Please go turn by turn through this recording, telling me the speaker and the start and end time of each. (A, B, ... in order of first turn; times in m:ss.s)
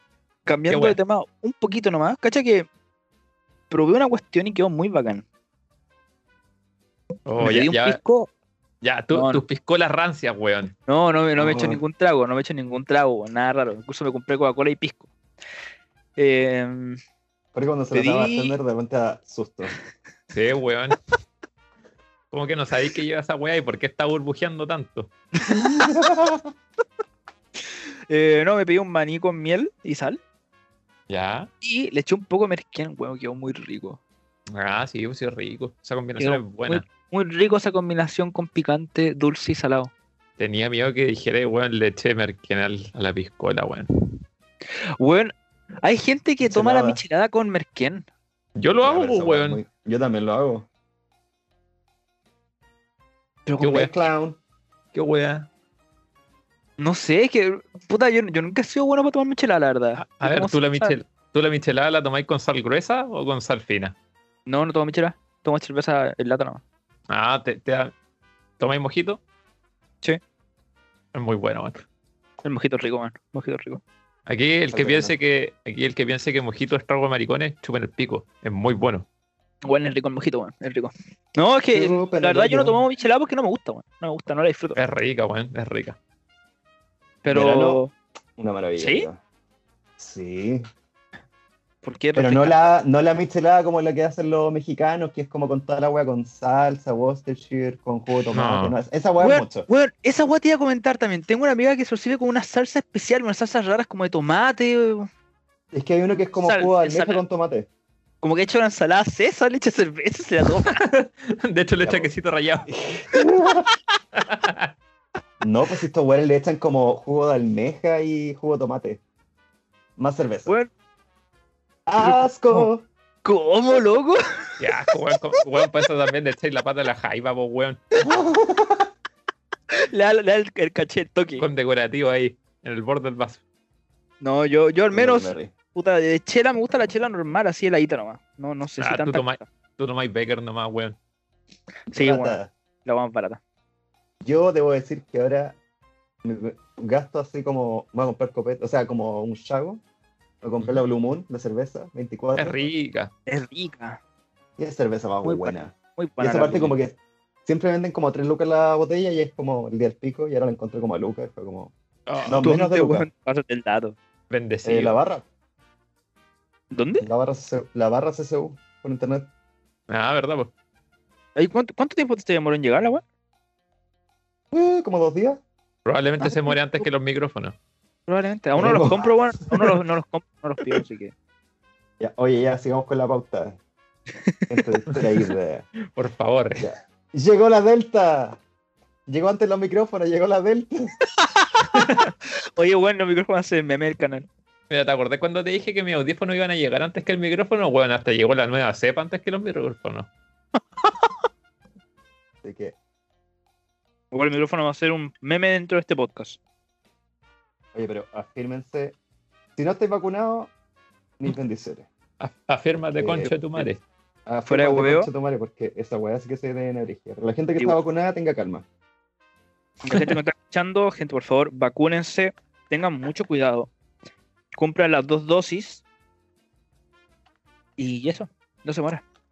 0:00.4-0:02.7 A
0:00.7-0:01.0 B
0:03.7-0:05.2 A
0:07.2-0:08.0 B
0:07.4-0:08.3 A
0:08.8-0:10.7 B
0:09.1-0:09.4 A
0:10.9-0:15.1 A
0:11.4-0:11.8 C
0:16.2-0:17.0 A
0:17.5-0:19.7 C
0:17.9-0:18.6 A
0:20.3-0:21.0 B
0:22.3-0:25.1 B
0:25.7-0:26.5 C
0:28.1-0:30.2 A
0:31.1-0:31.5 B
0:31.6-0:34.0 A
0:34.5-0:36.8 B
0:36.2-0:39.9 A
0:40.4-0:44.2 B
0:45.0-0:48.0 A
0:46.4-0:47.0 C
0:48.6-0:49.6 B
0:48.8-0:50.7 C
0:53.5-0:53.9 A
0:53.6-0:54.0 B
0:53.7-0:54.4 C
0:54.9-0:55.5 B
0:56.8-1:01.0 A
1:00.0-1:04.0 B
1:04.5-1:06.6 A
1:07.1-1:07.9 B
1:08.6-1:09.2 B
1:11.1-1:11.8 B
1:12.4-1:13.8 A
1:14.3-1:19.0 B
1:14.7-1:15.1 C
1:19.6-1:24.8 A
1:21.7-1:22.8 C
1:24.8-1:26.0 B
1:27.2-1:27.9 A
1:27.3-1:27.8 C
1:28.4-1:29.2 C
1:28.8-1:29.1 A
1:30.0-1:30.7 C
1:31.8-1:32.6 A
1:32.2-1:39.7 C
1:38.3-1:38.8 B
1:39.2-1:45.1 A
1:45.7-1:47.7 C
1:46.4-1:47.2 A
1:48.2-1:50.8 A
1:50.5-1:52.7 B
1:51.8-1:52.1 C
1:52.7-1:53.7 C
1:54.1-1:54.7 B
1:55.4-1:59.0 C
2:00.0-2:00.5 C
2:01.9-2:02.9 C
2:02.0-2:02.7 A
2:03.2-2:04.9 A
2:04.6-2:07.8 B
2:08.0-2:08.9 C
2:09.7-2:11.4 A
2:11.4-2:13.4 B
2:14.2-2:19.4 A
2:14.9-2:15.5 C
2:18.8-2:21.0 B
2:21.9-2:23.4 A
2:21.9-2:22.5 C
2:24.2-2:25.6 C
2:26.2-2:29.8 C
2:30.4-2:32.6 C
2:32.4-2:33.1 B
2:33.3-2:34.0 A
2:34.6-2:41.7 C
2:35.2-2:36.7 A
2:42.1-2:42.5 B
2:42.2-2:43.1 C
2:42.4-2:44.0 A
2:44.3-2:45.0 B
2:44.6-2:45.2 C
2:46.7-2:47.1 A
2:47.0-2:49.3 C
2:49.9-2:50.5 B
2:51.4-2:53.0 A
2:54.5-2:55.4 C
2:55.8-2:57.6 B
2:56.2-2:56.8 A
2:58.1-3:01.1 A
2:58.6-2:59.1 C
3:02.0-3:03.6 C
3:04.5-3:05.7 C
3:05.9-3:06.7 B
3:06.6-3:08.4 C
3:09.1-3:10.9 C
3:11.2-3:11.5 A
3:12.6-3:14.3 A
3:14.7-3:20.1 B
3:22.4-3:22.8 C
3:24.1-3:26.4 A
3:27.7-3:29.0 C
3:29.6-3:30.5 C
3:31.2-3:31.9 C
3:32.2-3:33.8 B
3:33.0-3:33.7 C
3:34.3-3:38.6 C
3:34.5-3:35.1 A
3:39.8-3:43.7 A
3:39.9-3:40.2 B
3:44.6-3:45.8 A
3:47.8-3:49.0 A